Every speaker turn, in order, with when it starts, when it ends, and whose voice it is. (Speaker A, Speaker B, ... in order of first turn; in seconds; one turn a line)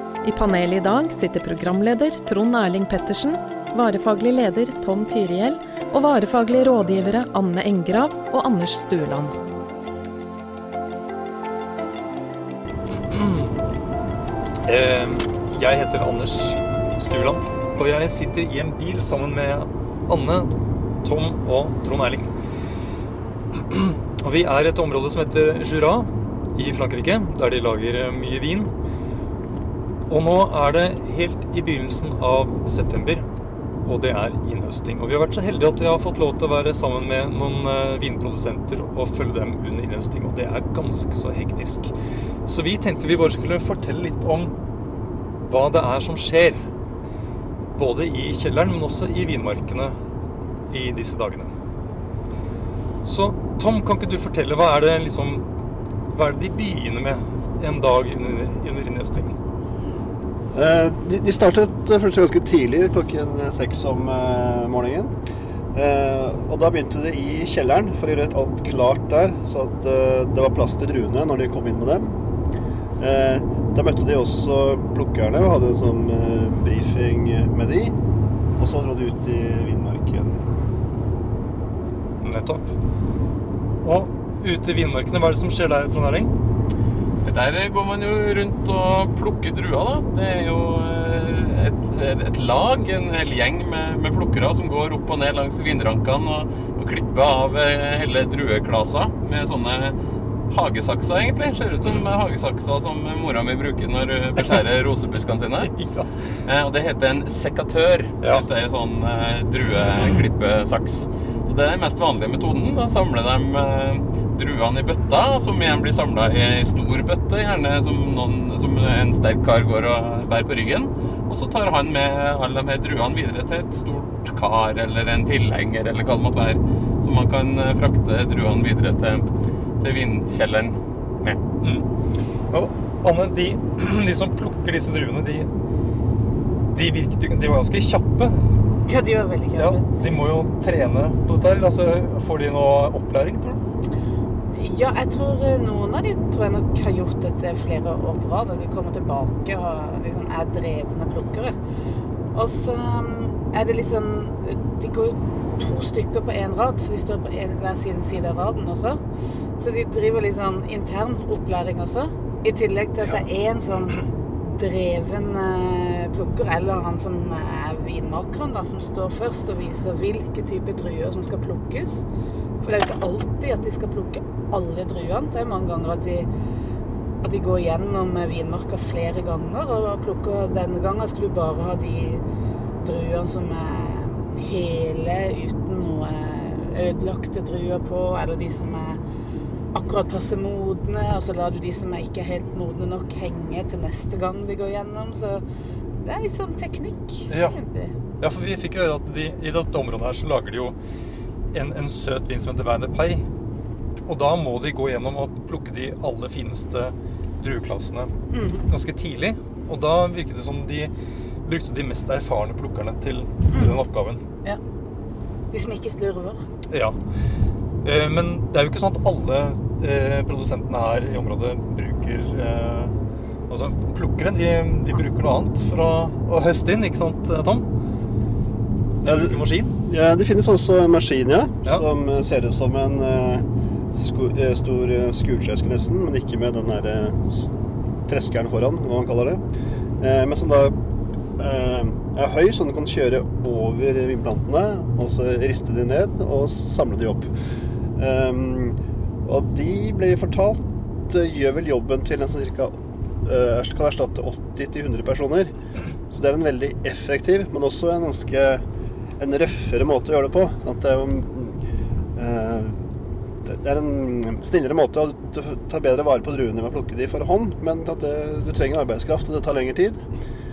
Speaker A: 0.2-9.3
Speaker B: 13.1-13.6
Speaker B: 14.6-20.5
Speaker B: 21.0-22.3
Speaker B: 23.5-28.7
Speaker B: 30.1-33.2
Speaker B: 33.9-41.9
Speaker B: 42.5-44.5
Speaker B: 45.5-46.6
Speaker B: 47.7-50.0
Speaker B: 50.7-51.5
Speaker B: 53.0-55.4
Speaker B: 56.1-59.3
Speaker C: 60.5-65.1
Speaker C: 65.7-72.2
Speaker C: 73.0-78.0
Speaker C: 78.6-80.4
Speaker B: 82.2-82.6
Speaker B: 83.8-86.3
Speaker D: 87.2-100.0
Speaker D: 100.5-105.7
Speaker B: 105.7-106.1
Speaker D: 106.4-129.3
Speaker D: 129.8-131.4
Speaker B: 131.6-131.9
Speaker B: 132.5-135.5
Speaker B: 136.7-138.4
Speaker E: 138.8-139.8
Speaker B: 139.6-143.6
Speaker E: 144.5-151.5
Speaker E: 152.3-159.0
Speaker E: 159.6-172.0
Speaker E: 172.6-176.3
Speaker E: 177.2-182.2
Speaker E: 182.8-189.0
Speaker E: 189.7-195.4
Speaker E: 196.0-197.9
Speaker B: 197.3-197.6
Speaker B: 198.2-200.7
Speaker B: 201.5-203.2
Speaker B: 204.1-208.1
Speaker E: 208.3-208.7
Speaker B: 208.7-210.9
Speaker B: 211.4-214.2
Speaker E: 213.5-213.8
Speaker E: 215.5-216.4
Speaker B: 216.7-216.9
Speaker B: 217.8-222.9
Speaker B: 223.5-227.7
Speaker B: 229.0-229.7
Speaker C: 229.0-237.5
Speaker C: 238.1-239.4
Speaker C: 240.0-240.7
Speaker C: 241.4-247.3
Speaker C: 248.0-252.7
Speaker C: 253.2-255.5
Speaker C: 256.1-258.6
Speaker C: 259.2-261.6
Speaker C: 262.1-262.7
Speaker C: 263.5-270.0